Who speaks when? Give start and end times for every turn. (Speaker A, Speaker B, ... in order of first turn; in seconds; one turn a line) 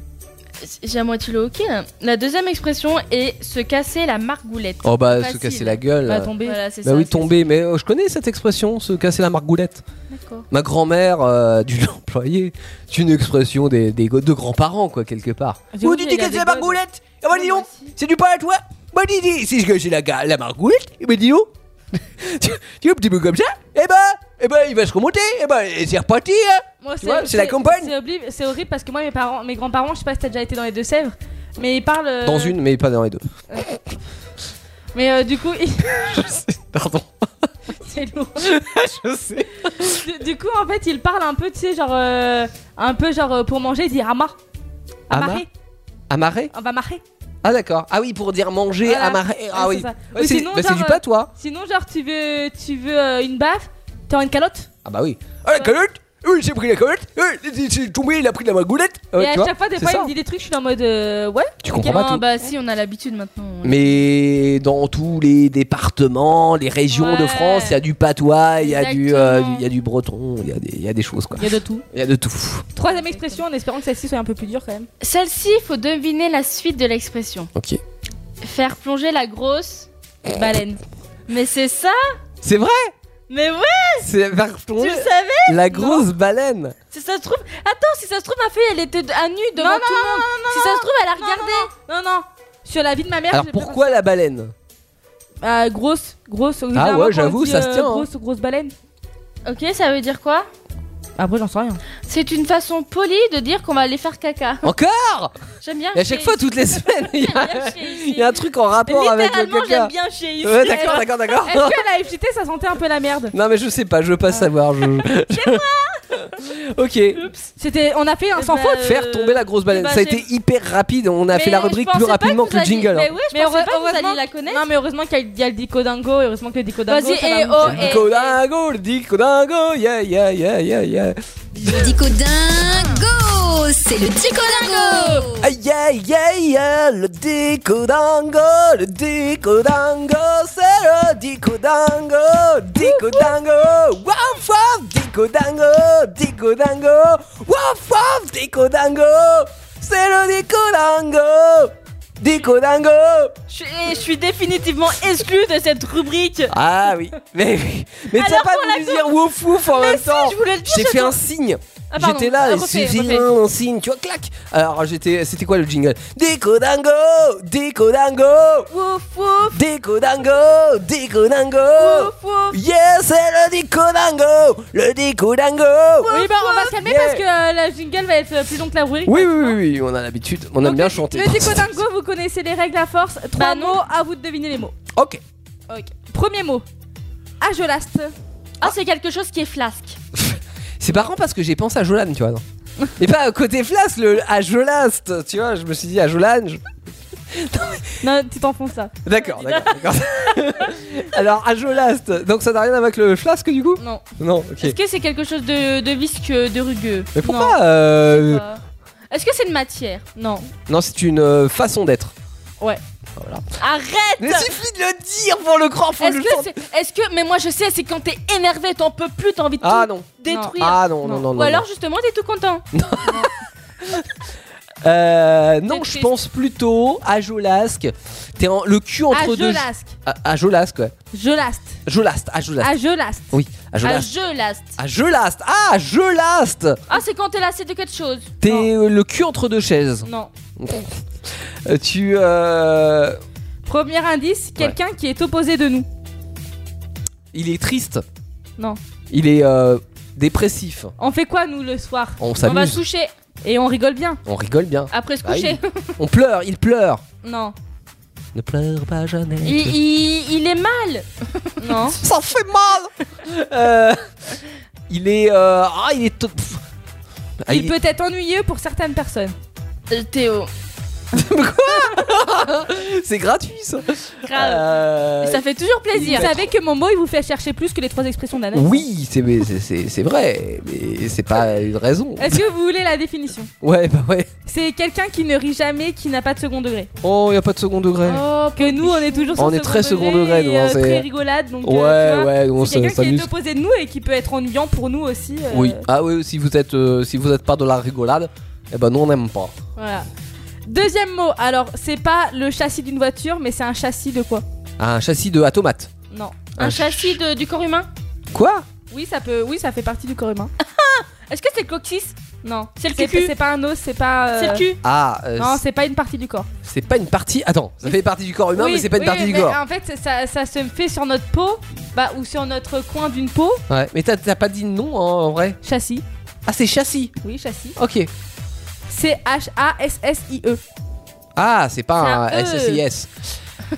Speaker A: 0.6-5.8
Speaker B: 4.8-6.3
Speaker C: 6.1-6.6
Speaker A: 6.4-7.4
Speaker B: 6.8-9.8
Speaker A: 10.1-10.5
Speaker B: 10.5-27.9
Speaker C: 15.7-16.8
Speaker C: 26.8-32.6
Speaker B: 32.2-33.2
Speaker C: 34.9-36.3
Speaker B: 35.9-37.5
Speaker C: 37.8-38.5
Speaker B: 38.4-40.0
Speaker C: 39.9-44.4
Speaker C: 45.1-45.5
Speaker B: 45.1-45.5
Speaker B: 46.1-46.5
Speaker C: 46.5-47.0
Speaker B: 47.4-51.3
Speaker C: 48.8-54.7
Speaker B: 54.9-60.1
Speaker C: 59.2-61.9
Speaker B: 61.6-62.2
Speaker A: 61.8-64.0
Speaker B: 63.6-72.7
Speaker C: 66.9-67.8
Speaker A: 68.7-69.6
Speaker C: 71.4-71.8
Speaker C: 72.8-74.9
Speaker A: 72.8-73.4
Speaker A: 75.0-77.5
Speaker B: 77.5-77.8
Speaker A: 78.4-79.9
Speaker C: 80.3-80.8
Speaker A: 81.3-82.2
Speaker B: 82.4-82.9
Speaker A: 83.3-84.1
Speaker B: 84.0-86.8
Speaker A: 84.8-86.1
Speaker A: 86.9-91.7
Speaker C: 89.6-94.0
Speaker B: 93.3-94.5
Speaker C: 95.4-98.7
Speaker B: 96.7-98.1
Speaker A: 99.5-100.5
Speaker C: 101.2-101.8
Speaker A: 102.1-104.7
Speaker B: 104.6-105.3
Speaker A: 105.6-106.5
Speaker B: 105.9-111.8
Speaker A: 107.0-111.2
Speaker C: 110.7-113.3
Speaker B: 113.3-115.6
Speaker A: 115.3-116.0
Speaker B: 116.2-117.2
Speaker A: 117.2-117.5
Speaker C: 117.6-119.0
Speaker A: 118.4-120.2
Speaker B: 118.8-123.1
Speaker A: 121.3-124.7
Speaker C: 123.3-128.1
Speaker A: 126.9-128.4
Speaker B: 127.6-131.8
Speaker D: 131.6-135.4
Speaker A: 134.5-135.2
Speaker B: 135.4-153.4
Speaker A: 153.5-156.5
Speaker B: 156.5-168.7
Speaker A: 158.1-161.2
Speaker A: 161.9-163.2
Speaker C: 162.1-163.2
Speaker A: 168.7-169.6
Speaker B: 169.5-177.2
Speaker A: 171.8-172.6
Speaker A: 176.1-176.7
Speaker C: 176.1-179.6
Speaker B: 179.1-181.8
Speaker C: 180.6-184.8
Speaker A: 183.4-183.8
Speaker B: 184.9-185.2
Speaker C: 185.7-186.7
Speaker C: 187.4-188.1
Speaker A: 188.6-190.0
Speaker B: 190.2-192.4
Speaker B: 193.0-196.6
Speaker B: 197.3-197.9
Speaker C: 198.0-198.9
Speaker B: 199.1-204.8
Speaker A: 199.4-200.4
Speaker C: 203.8-204.0
Speaker A: 204.6-207.2
Speaker B: 207.2-208.4
Speaker C: 207.2-207.5
Speaker A: 208.1-210.1
Speaker C: 210.2-210.5
Speaker B: 210.7-212.1
Speaker B: 213.2-213.4
Speaker A: 213.6-214.5
Speaker B: 214.2-216.5
Speaker A: 216.0-222.7
Speaker B: 219.6-221.7
Speaker C: 220.3-221.2
Speaker B: 222.7-224.2
Speaker B: 224.8-230.9
Speaker C: 225.7-226.1
Speaker C: 229.1-229.9
Speaker C: 231.1-231.8
Speaker B: 231.9-232.8
Speaker C: 232.6-233.4
Speaker B: 233.3-234.1
Speaker A: 233.8-234.8
Speaker B: 234.8-236.8
Speaker A: 236.9-238.3
Speaker B: 238.4-243.2
Speaker C: 240.1-240.3
Speaker C: 243.7-245.9
Speaker B: 247.3-248.0
Speaker B: 249.1-250.9
Speaker C: 251.0-252.2
Speaker B: 252.2-252.8
Speaker A: 252.4-253.1
Speaker C: 253.4-254.2
Speaker B: 254.3-257.0
Speaker A: 254.9-255.7
Speaker C: 257.2-257.6
Speaker B: 258.4-259.8
Speaker A: 259.4-261.9
Speaker C: 261.6-262.0
Speaker B: 262.0-264.1
Speaker B: 264.9-266.6
Speaker B: 267.4-267.8
Speaker C: 267.5-269.4
Speaker A: 269.9-270.5
Speaker B: 271.1-276.5
Speaker A: 274.2-276.3
Speaker C: 276.0-278.9
Speaker B: 278.5-282.4
Speaker C: 282.2-283.5
Speaker B: 283.6-284.3
Speaker C: 284.5-286.9
Speaker B: 287.0-288.3
Speaker A: 288.1-289.5
Speaker C: 288.6-295.8
Speaker B: 289.4-291.1
Speaker B: 291.6-293.3
Speaker B: 295.5-299.6
Speaker C: 299.8-300.1
Speaker C: 300.7-304.4
Speaker B: 304.8-305.9
Speaker C: 306.1-306.4
Speaker B: 306.6-307.2
Speaker A: 306.6-307.9
Speaker B: 308.3-308.7
Speaker C: 308.9-310.5
Speaker A: 310.6-312.1
Speaker C: 312.4-314.8
Speaker A: 312.8-313.3
Speaker A: 314.4-314.8
Speaker B: 314.8-315.6
Speaker C: 315.4-316.5
Speaker B: 316.6-319.6
Speaker C: 318.6-323.6
Speaker B: 323.7-325.6
Speaker C: 325.6-326.1
Speaker B: 326.5-327.1
Speaker C: 327.2-327.8
Speaker B: 327.8-328.1
Speaker C: 328.9-330.6
Speaker B: 331.4-333.4
Speaker C: 332.0-332.8